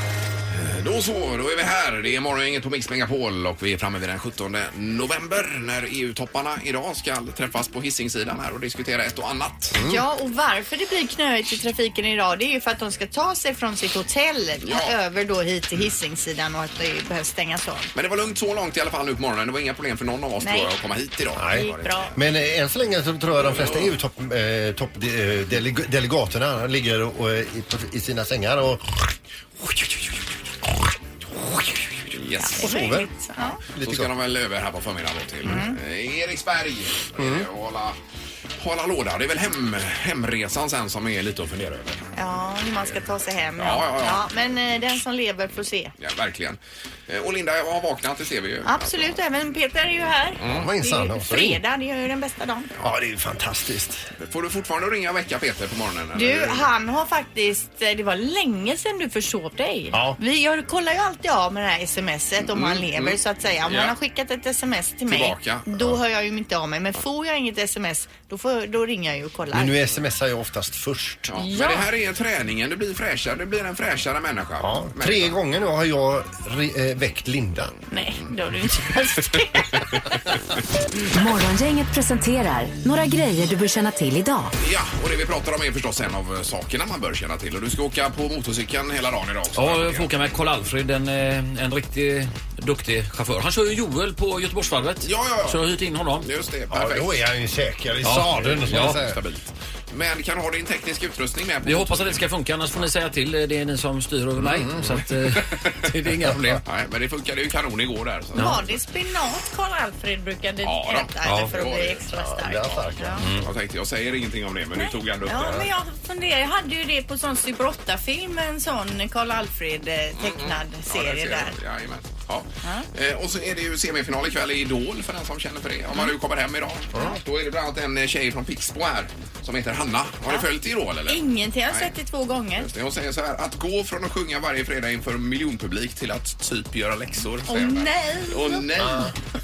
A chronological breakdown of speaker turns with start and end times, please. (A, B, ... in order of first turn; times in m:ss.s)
0:00.6-0:09.8 A
0:09.7-0:10.0 B
0:09.8-0:17.9 C
0:14.6-0:14.9 A
0:18.0-0:22.0 A
0:20.4-0:20.7 C
0:21.3-0:34.1 B
0:21.5-0:22.2 C
0:23.4-0:23.9 A
0:32.1-0:32.7 A
0:32.4-0:33.6 C
0:33.7-0:38.0 A
0:35.4-0:35.8 C
0:37.2-0:37.5 B
0:38.6-0:42.1 A
0:42.2-0:45.9 C
0:43.6-0:44.3 A
0:46.0-0:49.2 A
0:48.7-0:52.7 C
0:50.4-0:50.7 A
0:50.4-0:51.6 B
0:52.8-0:54.1 B
0:54.2-0:56.6 A
0:56.1-1:09.7 C
0:59.9-1:00.2 B
1:02.4-1:03.9 A
1:05.1-1:05.9 A
1:09.5-1:11.4 B
1:11.3-1:15.3 A
1:11.4-1:11.9 C
1:14.6-1:17.8 B
1:17.9-1:19.9 C
1:21.1-1:24.5 D
1:24.6-1:30.1 A
1:29.6-1:36.3 E
1:35.0-1:35.6 A
1:36.2-1:37.2 A
1:36.7-1:39.2 B
1:38.0-1:39.0 E
1:38.3-1:42.9 A
1:41.6-1:46.5 E
1:44.4-1:45.0 B
1:44.9-1:48.7 A
1:48.4-1:53.2 C
1:50.6-1:52.0 A
1:51.2-1:51.5 E
1:52.1-1:53.4 B
1:53.2-1:53.5 E
1:53.2-1:55.7 A
1:54.8-2:01.6 C
2:00.2-2:11.9 A
2:11.1-2:12.7 C
2:12.6-2:19.1 A
2:17.5-2:18.7 C
2:18.8-2:19.1 B